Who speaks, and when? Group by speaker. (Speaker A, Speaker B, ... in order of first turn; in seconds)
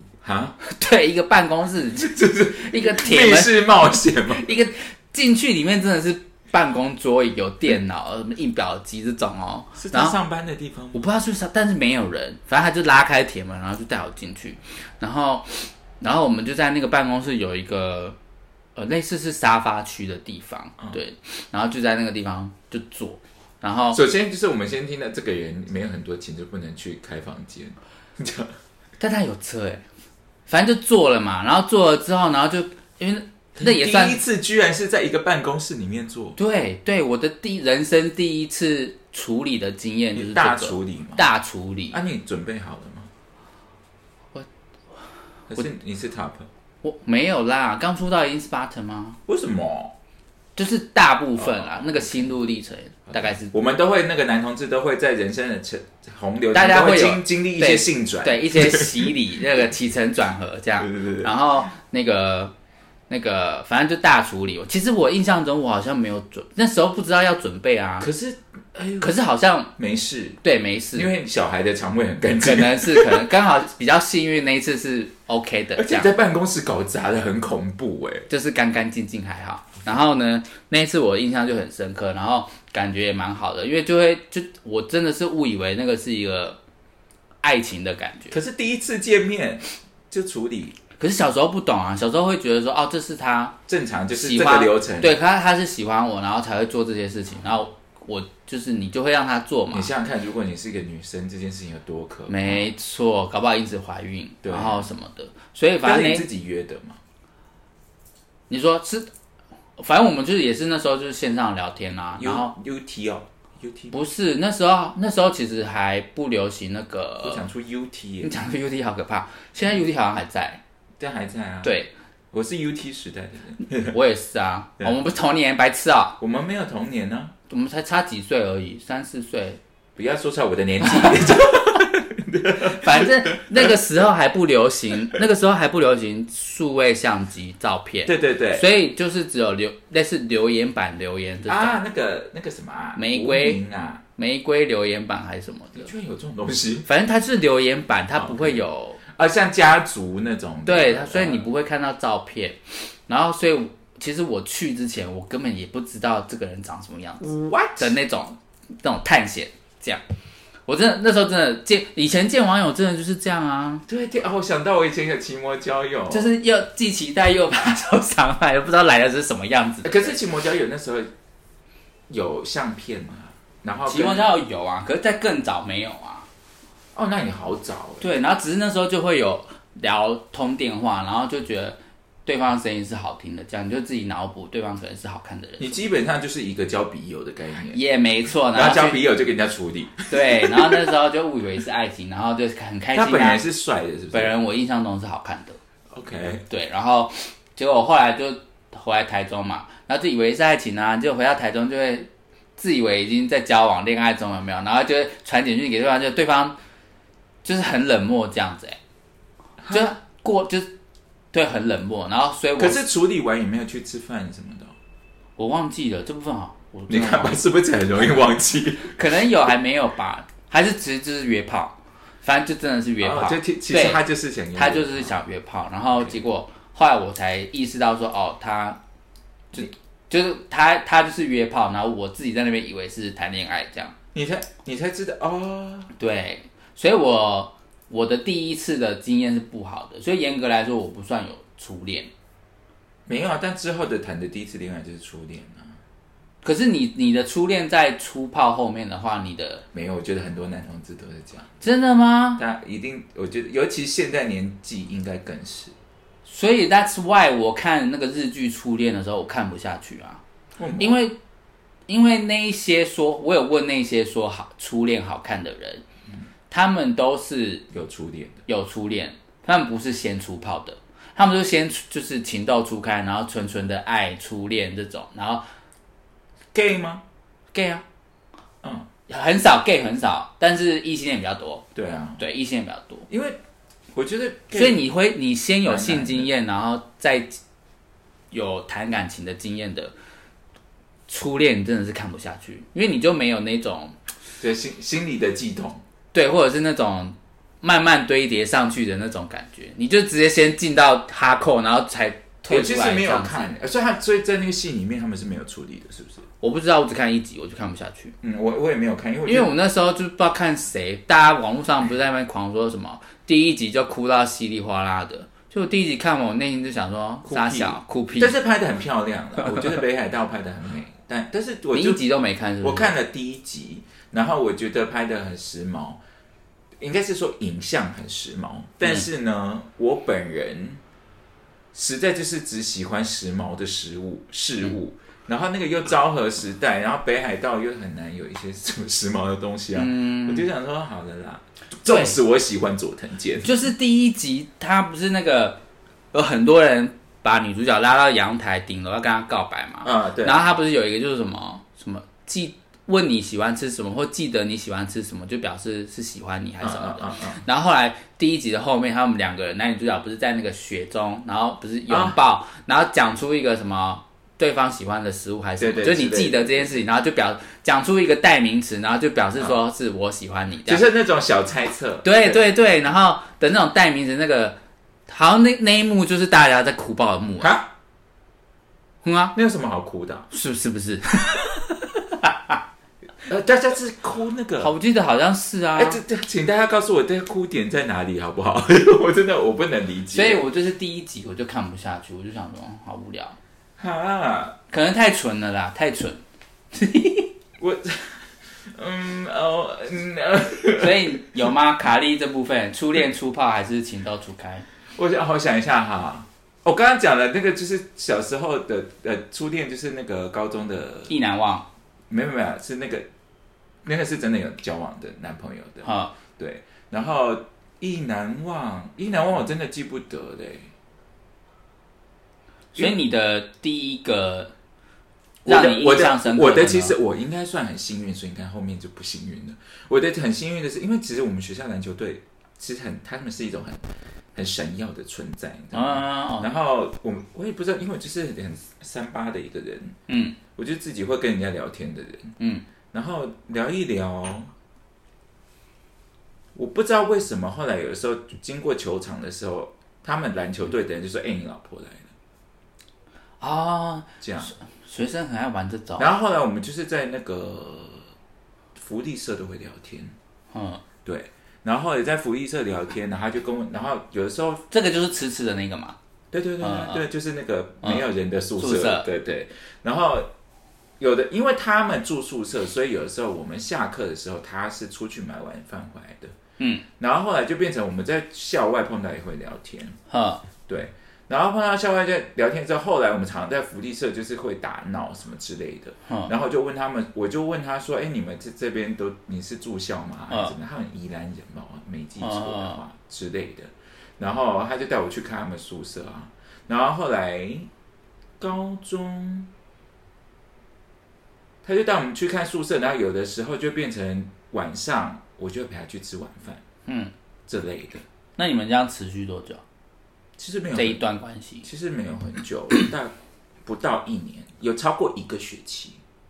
Speaker A: 0.2-0.6, 2.0-4.5, 9.8-11.1, 23.9-28.5, 33.6-36.4, 40.1-41.2, 41.9-43.1, 45.5-46.5, 49.3-49.9, 51.4-52.3, 53.1-59.1, 60.8-61.3, 68.0-69.2, 69.8-70.4, 70.9-73.3, 75.8-78.3, 88.3-90.8, 93.7-95.2, 99.7-102.7, 104.4-104.9, 105.8-107.0, 112.2-114.0, 117.2-118.4, 121.0-121.7, 122.3-124.0, 126.2-127.3, 129.9-133.8, 138.1-138.6, 141.5-144.0, 145.8-146.9, 148.1-151.4, 157.2-157.9, 163.9-166.3, 169.8-171.1, 172.1-174.3, 176.9-178.0, 185.6-187.8, 188.5-190.9, 192.9-194.3, 195.9-196.4, 209.6-209.9, 212.6-214.7, 216.9-219.0, 223.0-225.1, 225.9-226.2, 234.1-235.9, 243.1-245.7, 249.7-251.5, 252.4-255.7, 260.6-261.0, 267.7-268.4, 276.5-277.0, 281.7-282.2, 283.1-283.4, 283.9-284.8, 285.6-286.3, 294.4-295.8, 302.5-306.2, 308.2-309.5, 317.2-322.0, 322.6-326.0, 326.8-330.8, 331.7-343.6, 349.8-350.4, 356.6-357.4, 361.9-362.2, 365.6-366.8, 370.7-372.4, 377.4-377.7, 379.3-380.3, 383.2-384.7, 385.8-390.4, 393.8-394.6, 397.6-398.2, 398.7-401.4, 404.9-411.1, 412.1-413.1, 413.8-420.7, 425.4-433.8, 434.3-440.0, 440.6-442.3, 442.9-444.5, 446.5-452.1, 454.2-454.5, 456.0-458.1, 458.8-460.1, 461.0-464.6, 466.3-470.3, 471.0-476.3, 477.0-480.0, 480.7-497.7, 498.4-499.5, 501.6-506.6, 507.5-508.0, 510.4-511.0, 511.6-513.1, 513.6-516.0
Speaker B: 0.6-10.2, 10.9-18.2, 18.8-24.0, 29.0-29.8, 30.5-34.2, 36.4-42.0, 46.8-49.2, 50.5-53.5, 56.5-62.5, 63.1-68.1, 69.0-69.7, 70.4-71.1, 72.4-76.1, 78.3-86.6, 87.4-88.3, 91.0-93.6, 94.1-99.9, 102.3-106.2, 108.5-109.1, 109.8-112.5, 113.9-117.5, 118.2-120.6, 121.6-121.9, 123.8-126.2, 127.5-129.6, 130.8-131.4, 132.6-141.8, 142.9-143.6, 144.2-145.9, 146.8-149.0, 150.7-157.2, 157.8-160.0, 160.7-163.8, 166.1-170.1, 173.8-176.3, 178.0-185.8, 187.7-189.0, 190.1-193.4, 194.1-195.6, 196.5-206.6, 207.4-208.8, 209.7-210.7, 211.3-212.8, 215.4-217.4, 218.8-224.0, 224.5-228.8, 229.5-233.9, 236.0-242.1, 246.4-249.6, 251.6-252.4, 256.2-260.2, 260.8-261.2, 261.9-265.8, 266.5-267.6, 268.5-275.4, 277.5-277.8, 279.1-281.6, 282.2-283.1, 284.5-287.4, 288.3-289.9, 291.1-293.9, 296.1-303.5, 306.4-308.1, 309.2-318.4, 321.7-322.9, 339.7-340.4, 341.8-342.1, 343.4-345.6, 346.1-370.8, 372.0-377.5, 379.0-379.3, 380.3-382.6, 384.6-386.0, 390.1-393.4, 394.7-396.2, 396.7-397.3, 400.8-404.6, 411.1-411.6, 415.8-416.1, 422.7-424.5, 425.4-426.9, 435.7-436.5, 440.1-440.4, 442.4-442.6, 453.4-456.1, 460.5-460.8, 464.7-465.9, 466.6-467.0, 468.6-469.1, 480.1-480.4, 492.2-492.8, 506.9-507.1, 508.4-509.6, 510.7-511.7